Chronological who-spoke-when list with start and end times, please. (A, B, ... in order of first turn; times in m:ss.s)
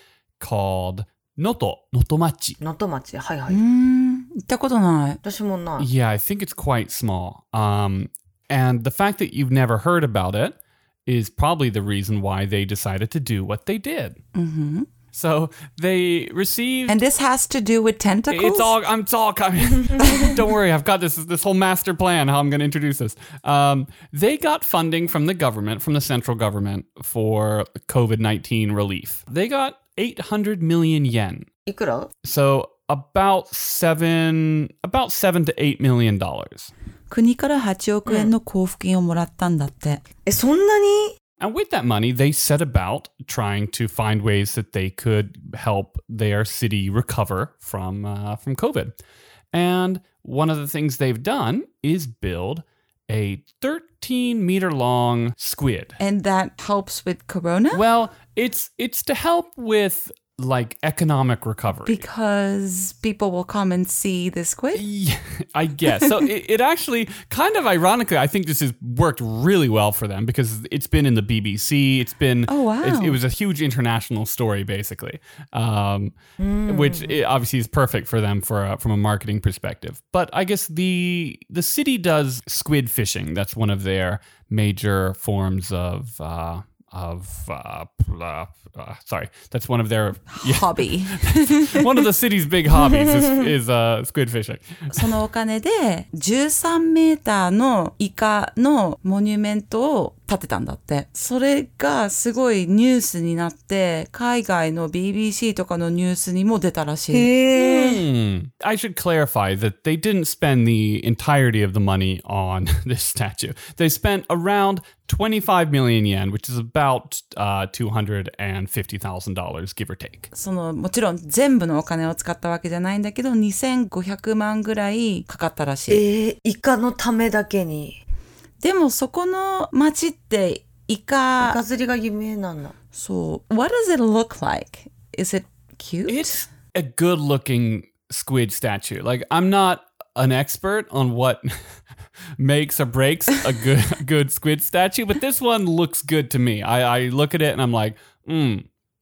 0:00.4-0:02.6 A
0:02.6-0:03.6 B
0:03.5-0:05.2 C
0:05.2-0:05.9 B
0:05.8-0:14.2 A
0:14.3-0:14.9 C
0:15.1-0:17.0 A
0:16.9-0:18.7 C
0:18.3-0:31.4 A
0:20.0-0:20.3 C
0:31.6-0:32.1 B
0:32.2-0:36.7 A
0:37.1-0:40.0 C
0:38.0-0:38.3 B
0:40.2-0:41.1 B
0:41.4-0:48.9 A
0:49.5-0:56.0 A
0:56.0-0:57.8 C
0:57.7-1:02.0 A
1:01.8-1:04.8 C
1:04.7-1:16.2 A
1:12.5-1:13.2 C
1:16.4-1:17.2 B
1:16.7-1:35.1 A
1:30.3-1:32.0 C
1:34.9-1:47.3 C
1:47.1-1:48.0 B
1:47.5-2:00.3 A
2:00.3-2:06.0 C
2:05.9-2:08.0 B
2:08.6-2:11.6 C
2:11.4-2:12.7 B
2:12.9-2:16.3 C
2:16.1-2:21.5 A
2:22.4-2:28.6 A